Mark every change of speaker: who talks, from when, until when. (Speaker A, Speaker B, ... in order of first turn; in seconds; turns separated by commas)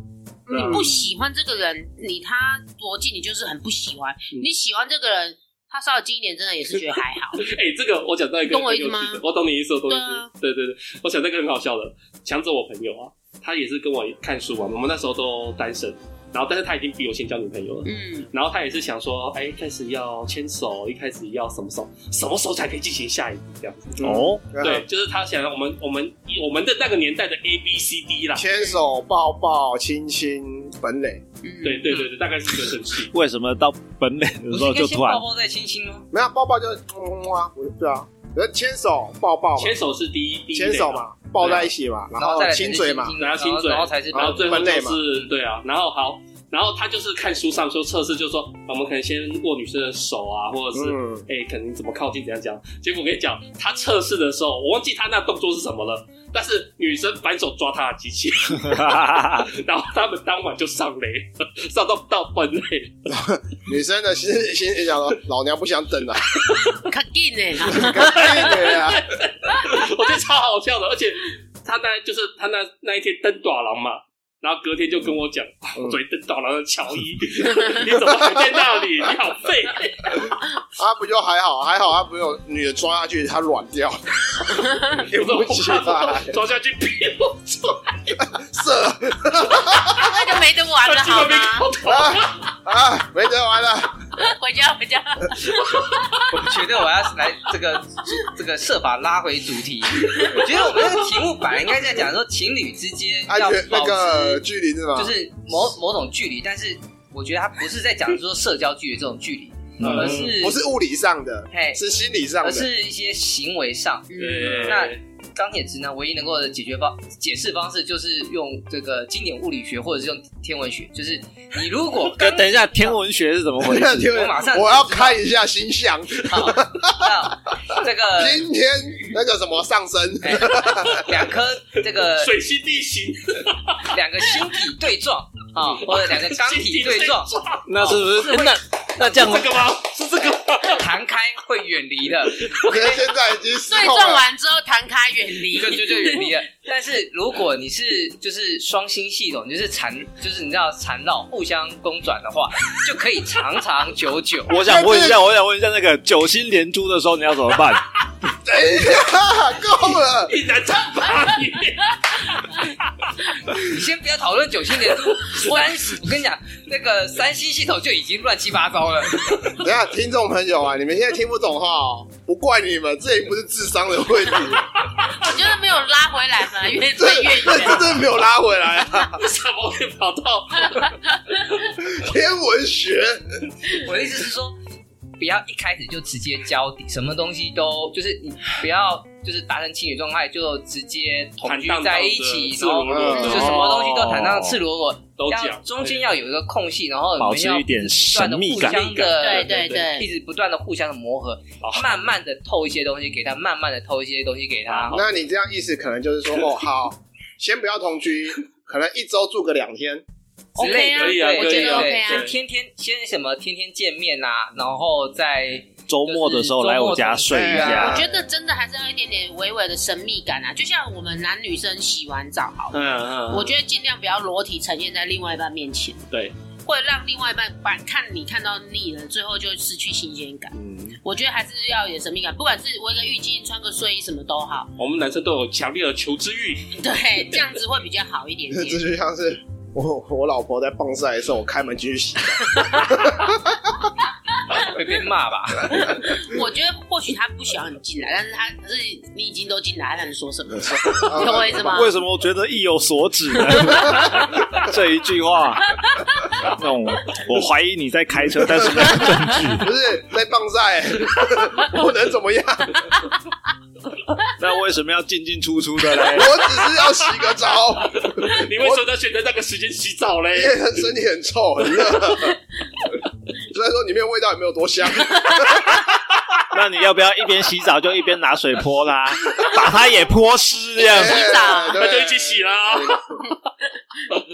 Speaker A: 0.5-0.9, Speaker B: 0.5-1.1, Speaker C: 0.5-7.5, Speaker B: 7.3-28.5, Speaker C: 8.5-9.2, Speaker C: 9.9-10.3, Speaker C: 17.9-18.3, Speaker A: 24.0-24.9, Speaker D: 24.0-24.5, Speaker A: 28.4-31.2, Speaker C: 31.4-31.9, Speaker B: 31.6-33.1, Speaker D: 33.1-35.2, Speaker E: 34.5-36.1, Speaker A: 36.1-39.8, Speaker B: 39.6-41.7, Speaker A: 40.5-43.1, Speaker E: 42.2-44.6, Speaker B: 43.2-63.1, Speaker A: 44.1-45.0, Speaker A: 50.7-51.3, Speaker D: 58.5-59.5, Speaker A: 63.1-66.5, Speaker C: 66.9-68.8, Speaker A: 67.6-69.1, Speaker B: 68.0-80.4, Speaker C: 69.5-69.8, Speaker A: 80.2-86.3, Speaker C: 84.6-85.0, Speaker B: 85.1-88.2, Speaker A: 88.2-90.2, Speaker C: 89.9-91.7, Speaker B: 90.8-92.5, Speaker A: 91.8-94.0, Speaker C: 94.2-96.5, Speaker E: 96.3-110.6, Speaker C: 100.0-101.0, Speaker A: 103.3-105.2, Speaker D: 109.8-110.1, Speaker B: 109.8-110.3, Speaker A: 110.1-112.7, Speaker E: 111.5-111.8, Speaker E: 112.4-123.0, Speaker C: 114.1-114.8, Speaker B: 114.2-115.0, Speaker D: 122.2-124.2, Speaker A: 123.6-131.0, Speaker E: 124.0-125.2, Speaker E: 126.2-128.4, Speaker E: 130.2-132.3, Speaker B: 131.9-133.9, Speaker E: 133.9-138.6, Speaker B: 135.7-138.0, Speaker D: 137.7-139.6, Speaker B: 139.0-140.9, Speaker E: 140.6-142.7, Speaker B: 142.4-143.0, Speaker A: 142.6-144.3, Speaker C: 143.7-146.3, Speaker E: 145.5-154.6, Speaker D: 154.5-157.8, Speaker A: 154.6-155.2, Speaker A: 158.4-160.3, Speaker B: 160.2-162.8, Speaker E: 163.5-169.6, Speaker B: 165.1-165.5, Speaker A: 169.6-174.7, Speaker C: 175.1-178.1, Speaker A: 176.9-179.2, Speaker B: 179.2-181.0, Speaker C: 180.7-181.4, Speaker A: 181.8-183.5, Speaker E: 183.8-184.6, Speaker E: 185.2-205.0, Speaker B: 191.4-194.0, Speaker A: 192.9-193.6, Speaker D: 193.4-194.6, Speaker B: 195.2-196.1, Speaker D: 197.2-199.1, Speaker C: 199.2-200.1, Speaker B: 199.2-199.8, Speaker B: 201.6-202.0, Speaker B: 204.7-205.1, Speaker A: 204.9-210.0, Speaker C: 210.6-212.3, Speaker E: 210.6-218.0, Speaker B: 210.6-212.3, Speaker D: 215.9-218.0, Speaker A: 217.3-218.2, Speaker C: 217.7-226.1, Speaker B: 222.7-223.5, Speaker C: 226.7-234.7, Speaker A: 230.5-231.0, Speaker B: 234.8-236.8, Speaker C: 236.7-238.8, Speaker A: 238.5-243.9, Speaker E: 244.5-245.9, Speaker C: 245.7-251.9, Speaker A: 250.6-251.9, Speaker D: 251.6-255.7, Speaker C: 253.4-254.2, Speaker C: 255.8-256.5, Speaker D: 256.4-259.7, Speaker A: 258.6-262.9, Speaker D: 264.4-266.4, Speaker A: 266.1-268.8, Speaker B: 266.8-267.3, Speaker B: 267.9-270.8, Speaker A: 270.3-272.4, Speaker A: 273.5-276.0, Speaker C: 275.2-275.6, Speaker D: 276.5-281.3, Speaker C: 280.8-281.8, Speaker A: 280.8-283.0, Speaker B: 281.7-283.3